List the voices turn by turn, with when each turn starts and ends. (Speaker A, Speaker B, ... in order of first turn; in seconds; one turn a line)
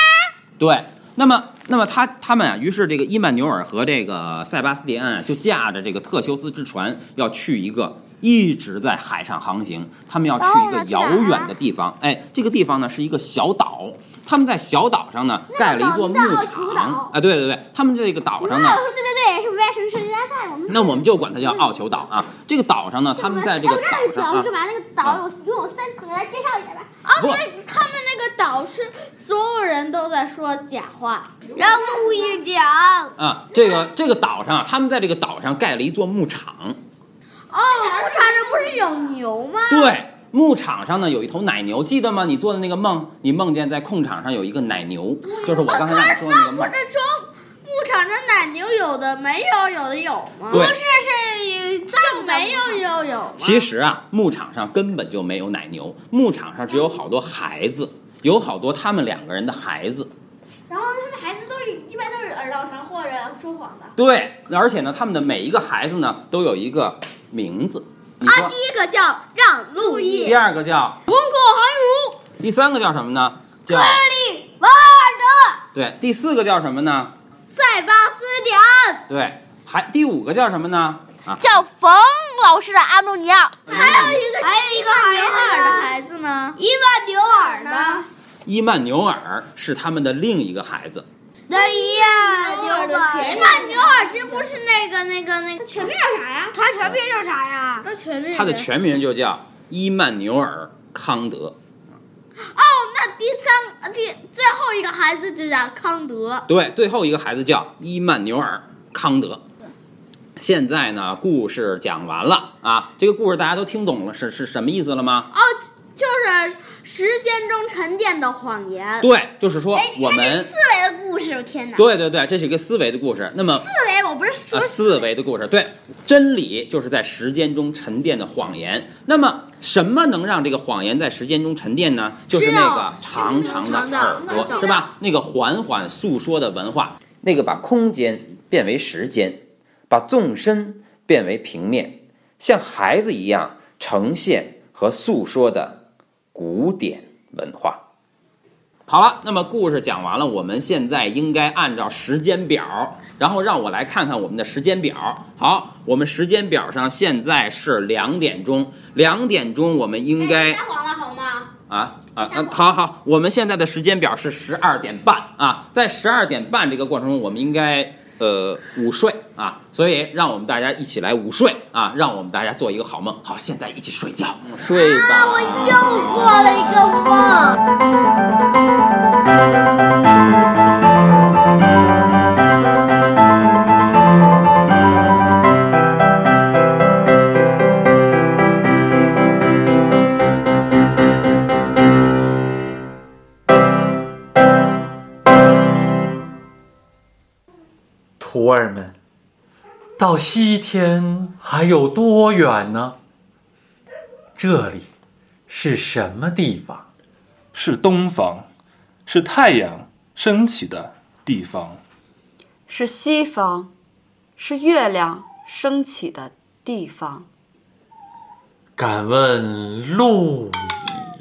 Speaker A: 0.6-18.8
Speaker B: 10.4-11.5
Speaker B: 15.5-17.1
Speaker B: 18.4-21.7
Speaker A: 20.7-24.5
Speaker B: 23.2-26.9
Speaker C: 27.0-32.2
Speaker A: 27.2-27.4
Speaker B: 31.6-33.1
Speaker A: 33.2-36.8
Speaker C: 37.5-39.9
Speaker B: 37.8-38.8
Speaker A: 39.7-46.7
Speaker C: 45.3-53.6
Speaker A: 50.5-50.8
Speaker B: 51.9-52.9
Speaker A: 53.4-60.1
Speaker B: 60.7-63.9
Speaker A: 64.0-68.5
Speaker C: 68.2-70.4
Speaker B: 69.8-70.3
Speaker A: 70.2-71.0
Speaker B: 71.1-72.0
Speaker A: 72.4-74.0
Speaker C: 73.7-74.4
Speaker B: 74.5-75.6
Speaker A: 75.7-77.1
Speaker C: 77.5-79.0
Speaker A: 79.1-81.4
Speaker C: 81.4-86.6
Speaker A: 83.7-84.0
Speaker B: 83.8-85.9
Speaker B: 86.6-88.0
Speaker C: 87.4-88.0
Speaker A: 88.4-91.0
Speaker B: 91.5-94.5
Speaker C: 91.5-96.5
Speaker B: 96.5-97.8
Speaker C: 97.8-98.7
Speaker A: 98.3-101.5
Speaker C: 102.4-106.4
Speaker A: 106.5-109.4
Speaker A: 110.4-115.3
Speaker C: 115.3-119.1
Speaker A: 119.0-120.5
Speaker B: 119.7-121.8
Speaker A: 121.8-123.6
Speaker B: 123.6-125.0
Speaker A: 124.5-145.8
Speaker C: 132.3-134.8
Speaker B: 134.1-134.8
Speaker A: 146.3-147.8
Speaker A: 148.9-160.6
Speaker B: 160.2-161.5
Speaker A: 161.7-175.8
Speaker B: 162.2-162.6
Speaker C: 174.7-177.6
Speaker D: 198.2-198.9
Speaker D: 200.0-202.9
Speaker D: 204.3-204.9
Speaker D: 205.5-206.8
Speaker E: 207.5-208.5
Speaker E: 209.1-211.8
Speaker F: 212.7-213.7
Speaker F: 214.4-217.3
Speaker D: 218.8-220.8